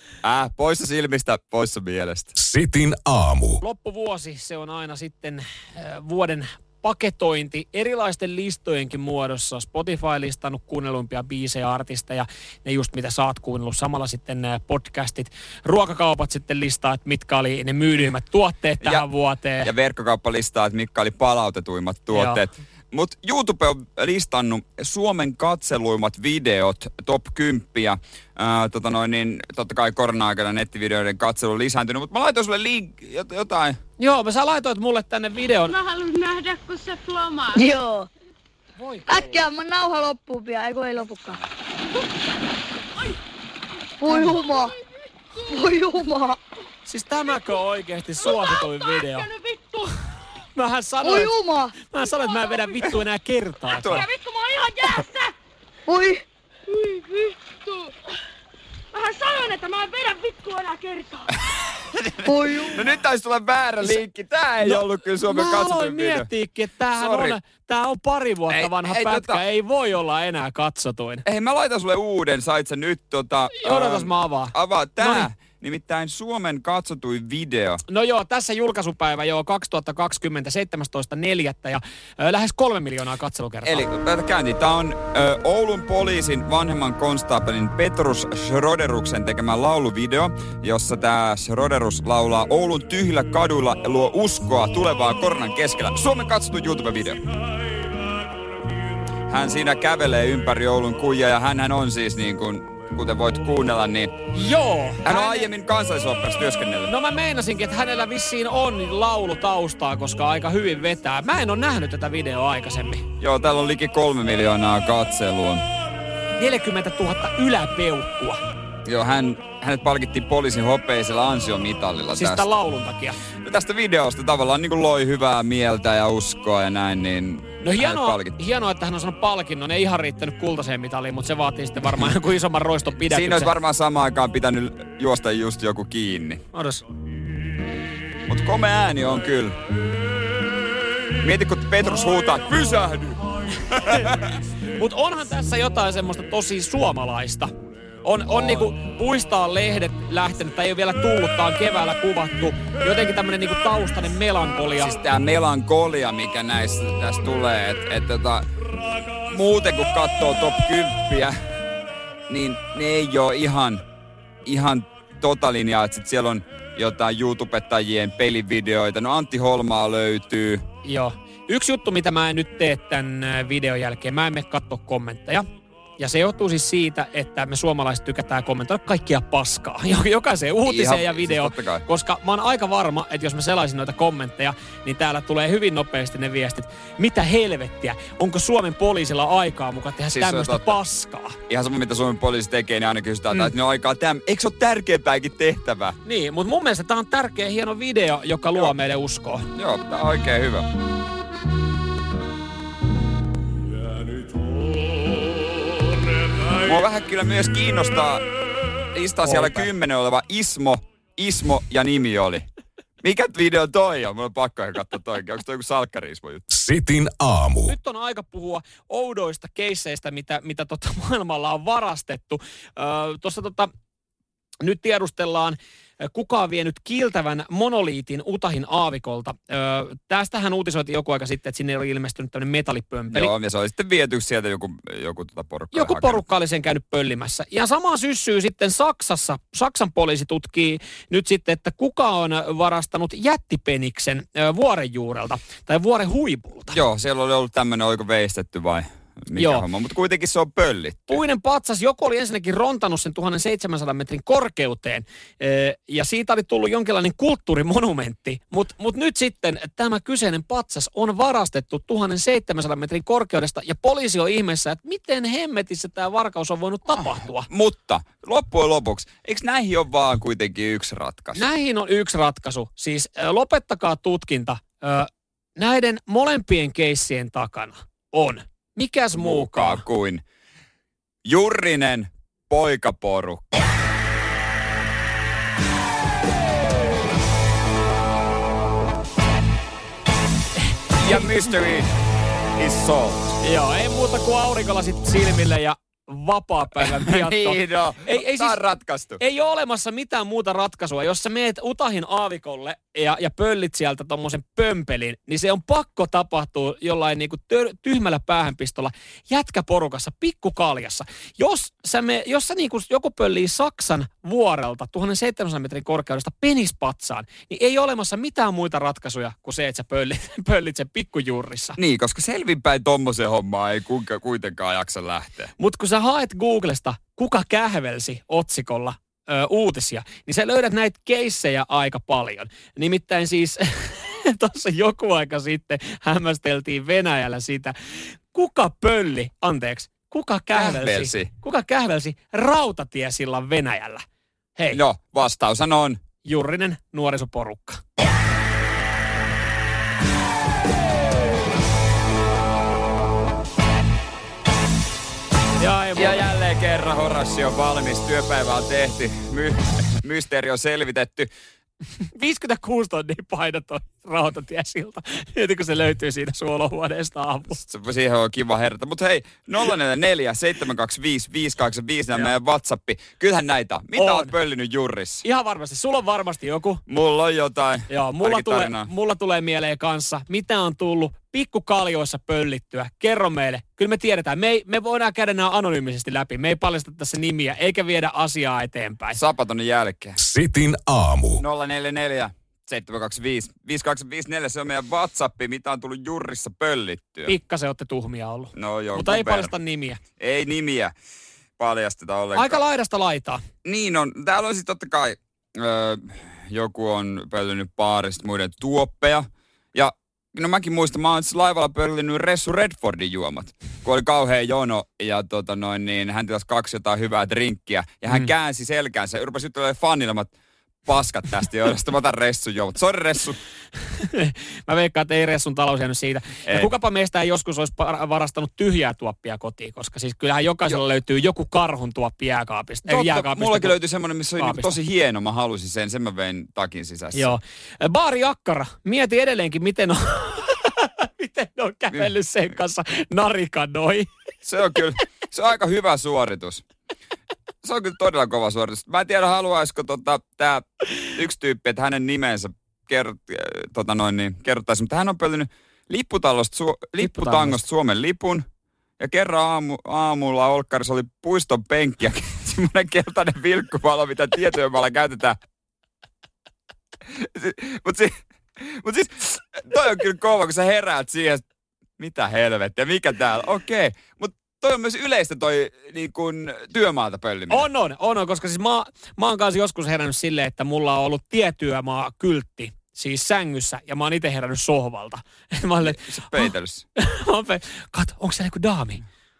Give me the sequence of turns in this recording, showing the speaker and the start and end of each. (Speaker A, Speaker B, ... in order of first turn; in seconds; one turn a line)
Speaker A: 0.2-2.3
Speaker B: 2.4-3.6
Speaker C: 3.6-19.7
Speaker A: 18.8-19.1
Speaker A: 19.6-33.8
Speaker C: 22.1-22.4
Speaker C: 34.0-35.7
Speaker D: 35.6-37.7
Speaker E: 37.5-38.1
Speaker C: 38.8-39.4
Speaker E: 39.1-41.4
Speaker E: 44.0-44.7
Speaker D: 44.2-44.7
Speaker E: 45.4-46.4
Speaker C: 46.9-49.3
Speaker D: 48.2-50.1
Speaker C: 50.5-54.1
Speaker E: 51.0-51.7
Speaker D: 52.4-52.9
Speaker A: 53.8-54.0
Speaker D: 53.9-55.3
Speaker E: 55.9-56.2
Speaker D: 56.7-57.9
Speaker D: 58.9-61.7
Speaker A: 61.9-66.3
Speaker E: 62.2-62.9
Speaker C: 64.6-71.2
Speaker A: 67.0-67.4
Speaker A: 68.5-69.4
Speaker A: 71.2-77.8
Speaker C: 73.6-75.3
Speaker C: 77.9-83.8
Speaker A: 83.6-97.3
Speaker A: 99.3-104.3
Speaker C: 104.3-105.5
Speaker A: 105.0-106.9
Speaker C: 106.9-113.1
Speaker A: 113.2-115.6
Speaker C: 116.4-118.4
Speaker A: 118.8-122.5
Speaker C: 122.1-123.2
Speaker A: 123.3-128.4
Speaker C: 127.6-133.5
Speaker A: 133.1-136.4
Speaker C: 136.5-136.8
Speaker A: 138.3-139.6
Speaker A: 141.2-144.3
Speaker C: 143.7-147.5
Speaker C: 148.0-154.9
Speaker A: 148.3-148.6
Speaker A: 154.8-158.5
Speaker A: 159.2-161.4
Speaker A: 162.3-163.8
Speaker A: 164.4-170.6
Speaker C: 170.8-175.4
Speaker C: 176.0-191.4
Speaker A: 180.6-181.8
Speaker A: 190.1-190.8
Speaker A: 191.5-196.0
Speaker C: 196.0-199.5
Speaker A: 199.5-200.7
Speaker A: 206.4-208.2
Speaker A: 208.9-212.4
Speaker C: 209.3-209.6
Speaker A: 213.0-216.4
Speaker B: 216.5-217.8
Speaker C: 217.7-223.7
Speaker C: 224.6-233.3
Speaker A: 233.1-236.2
Speaker C: 235.7-246.8
Speaker A: 246.7-251.2
Speaker C: 249.3-249.6
Speaker C: 251.1-267.5
Speaker A: 266.9-271.4
Speaker C: 271.3-279.8
Speaker A: 279.1-280.2
Speaker A: 281.2-283.6
Speaker A: 290.9-291.9
Speaker A: 292.6-293.3
Speaker C: 293.4-298.6
Speaker A: 296.8-299.2
Speaker C: 299.2-321.8
Speaker A: 321.8-325.5
Speaker C: 325.6-344.0
Speaker A: 340.5-341.3
Speaker C: 344.6-344.8
Speaker A: 344.7-346.0
Speaker C: 346.2-347.8
Speaker C: 355.6-356.3
Speaker A: 355.9-361.3
Speaker C: 362.1-367.6
Speaker A: 367.6-375.2
Speaker C: 374.0-374.3
Speaker C: 375.2-376.8
Speaker A: 376.9-378.9
Speaker C: 377.9-389.2
Speaker A: 389.1-390.2
Speaker B: 390.2-391.4
Speaker A: 391.4-397.3
Speaker C: 397.3-400.0
Speaker A: 398.5-399.5
Speaker A: 400.2-400.9
Speaker A: 401.6-402.6
Speaker C: 402.3-403.4
Speaker A: 403.6-420.3
Speaker A: 420.9-423.4
Speaker C: 423.9-433.7
Speaker A: 426.4-426.7
Speaker A: 432.9-437.3
Speaker C: 434.4-434.7
Speaker C: 437.1-444.1
Speaker A: 444.4-446.6
Speaker A: 447.6-458.4
Speaker C: 457.0-457.6
Speaker A: 459.0-465.4
Speaker A: 467.1-471.4
Speaker A: 472.0-477.6
Speaker C: 477.5-489.0
Speaker A: 485.8-486.8